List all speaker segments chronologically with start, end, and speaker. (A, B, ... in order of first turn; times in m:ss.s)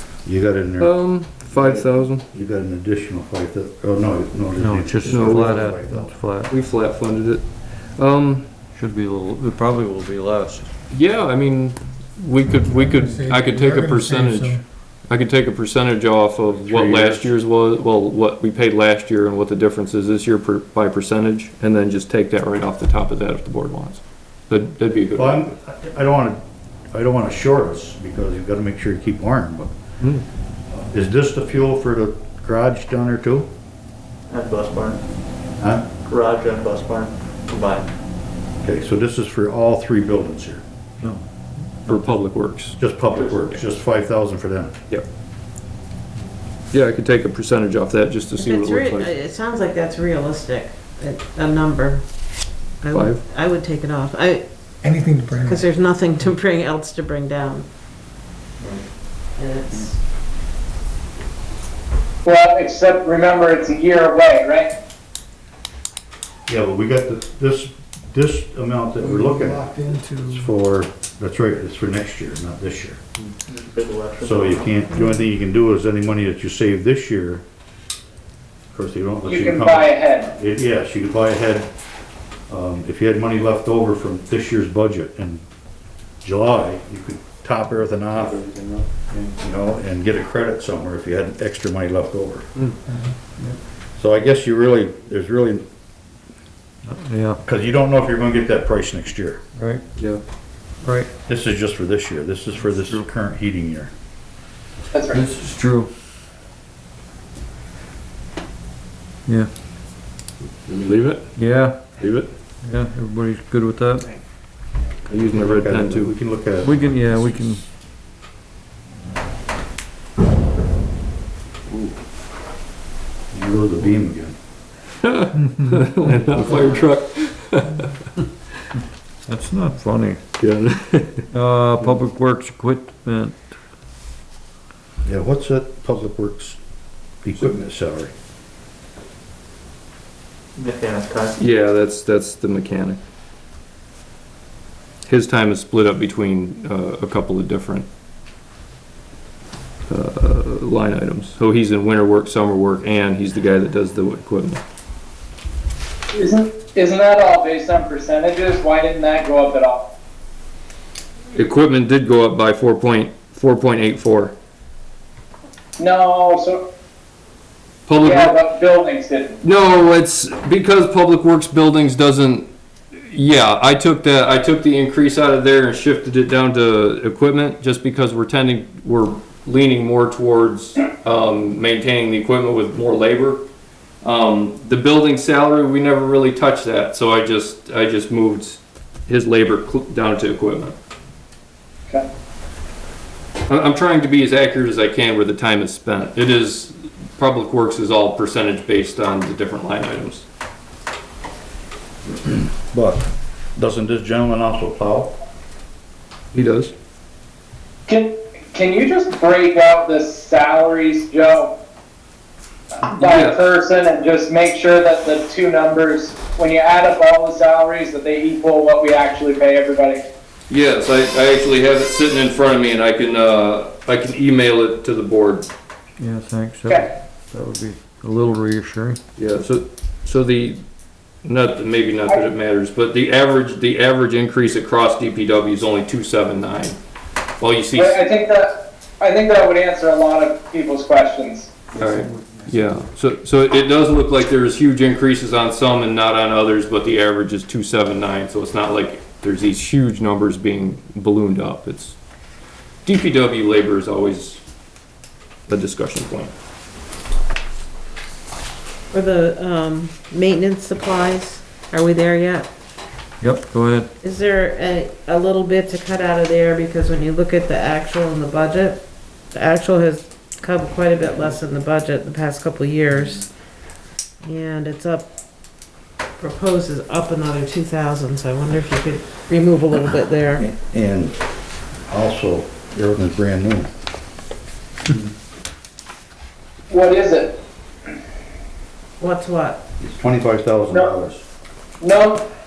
0:00.2-0:00.9 A
0:00.8-0:02.2 B
0:01.5-0:06.1 A
0:04.6-0:06.5 C
0:05.1-0:05.5 B
0:06.5-0:08.5 B
0:08.7-0:10.7 C
0:10.9-0:25.4 B
0:12.7-0:14.6 D
0:16.6-0:17.2 A
0:25.1-0:26.4 A
0:26.9-0:29.7 A
0:30.9-0:33.5 A
0:34.3-0:35.0 E
0:35.6-0:35.9 A
0:36.0-0:37.9 E
0:38.6-0:40.6 A
0:41.9-0:42.1 A
0:41.9-0:43.6 B
0:42.8-0:44.7 A
0:46.7-0:49.1 B
0:48.4-0:52.0 F
0:52.8-0:54.4 F
0:52.9-0:53.2 B
0:54.8-0:55.6 D
0:55.4-0:57.7 F
0:59.4-1:00.0 F
1:02.2-1:04.7 G
1:06.5-1:13.0 A
1:09.1-1:10.4 D
1:13.5-1:14.7 E
1:14.2-1:17.4 A
1:18.7-1:21.7 A
1:19.2-1:20.3 G
1:22.5-1:25.4 A
1:26.2-1:28.4 A
1:28.2-1:28.8 B
1:29.1-1:32.5 A
1:34.0-1:35.6 A
1:36.8-1:37.4 C
1:37.4-1:39.4 A
1:39.6-1:39.8 C
1:40.0-1:40.2 B
1:40.8-1:41.1 C
1:41.3-1:43.9 A
1:44.9-1:45.2 G
1:45.1-1:45.9 C
1:50.6-1:51.3 B
1:51.4-1:51.9 C
1:52.0-1:52.3 B
1:52.6-1:54.1 C
1:55.1-1:56.1 B
1:55.2-1:56.8 A
1:56.6-1:57.6 C
2:03.3-2:04.4 A
2:05.0-2:08.0 B
2:09.3-2:10.2 C
2:10.4-2:11.2 B
2:11.3-2:13.5 C
2:15.0-2:16.6 A
2:17.2-2:18.1 A
2:20.6-2:21.3 E
2:21.4-2:23.0 B
2:25.1-2:27.9 B
2:29.9-2:34.6 B
2:36.1-2:39.9 G
2:41.3-2:44.3 B
2:45.8-2:46.6 G
2:47.9-2:48.4 B
2:47.9-2:49.4 G
2:49.4-3:03.4 B
3:04.0-3:10.8 B
3:13.5-3:20.2 B
3:22.3-3:23.0 A
3:23.5-3:25.1 A
3:26.3-3:26.7 B
3:27.9-3:31.5 G
3:32.8-3:40.0 G
3:33.0-3:33.4 B
3:40.5-3:45.5 B
3:46.0-3:49.0 C
3:49.2-3:50.6 B
3:51.2-3:56.8 B
3:57.4-3:58.1 B
3:57.7-4:01.7 G
4:01.7-4:12.0 B
4:12.8-4:14.4 B
4:15.5-4:16.3 B
4:18.9-4:22.5 F
4:23.2-4:23.9 C
4:24.0-4:33.3 F
4:34.2-4:35.1 F
4:36.2-4:40.4 F
4:40.4-4:41.2 A
4:41.9-4:43.7 A
4:46.7-4:47.4 G
4:49.0-4:49.6 F
4:49.8-4:51.2 A
4:51.8-4:52.2 G